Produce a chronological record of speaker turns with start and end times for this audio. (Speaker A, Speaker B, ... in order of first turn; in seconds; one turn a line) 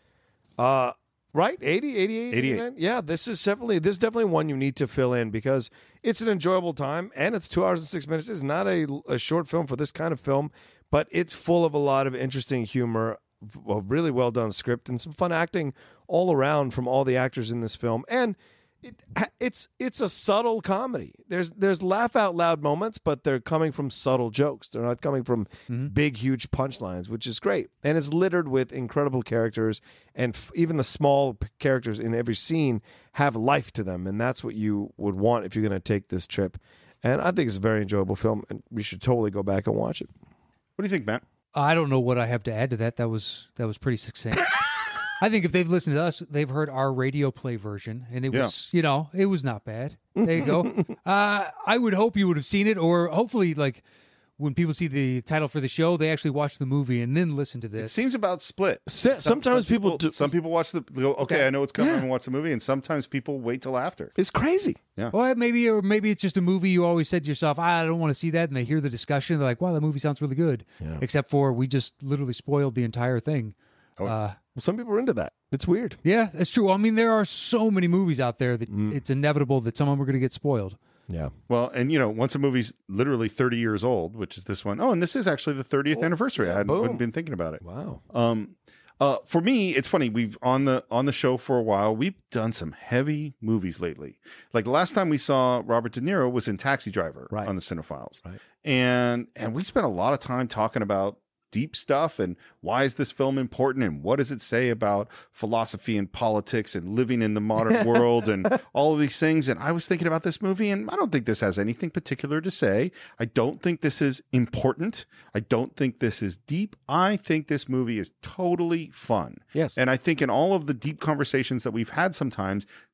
Speaker A: 0.6-40.1
Speaker B: 2.3-2.6
Speaker B: 40.8-41.2
Speaker C: 41.5-53.8
Speaker A: 50.1-50.9
Speaker C: 54.4-58.0
Speaker B: 57.8-64.1
Speaker A: 58.9-60.3
Speaker A: 61.8-62.0
Speaker A: 64.2-64.8
Speaker C: 65.1-74.4
Speaker A: 74.5-76.0
Speaker C: 76.0-80.8
Speaker A: 78.7-79.0
Speaker A: 81.1-81.3
Speaker B: 81.5-122.7
Speaker A: 85.9-87.0
Speaker A: 87.6-88.0
Speaker A: 107.6-108.2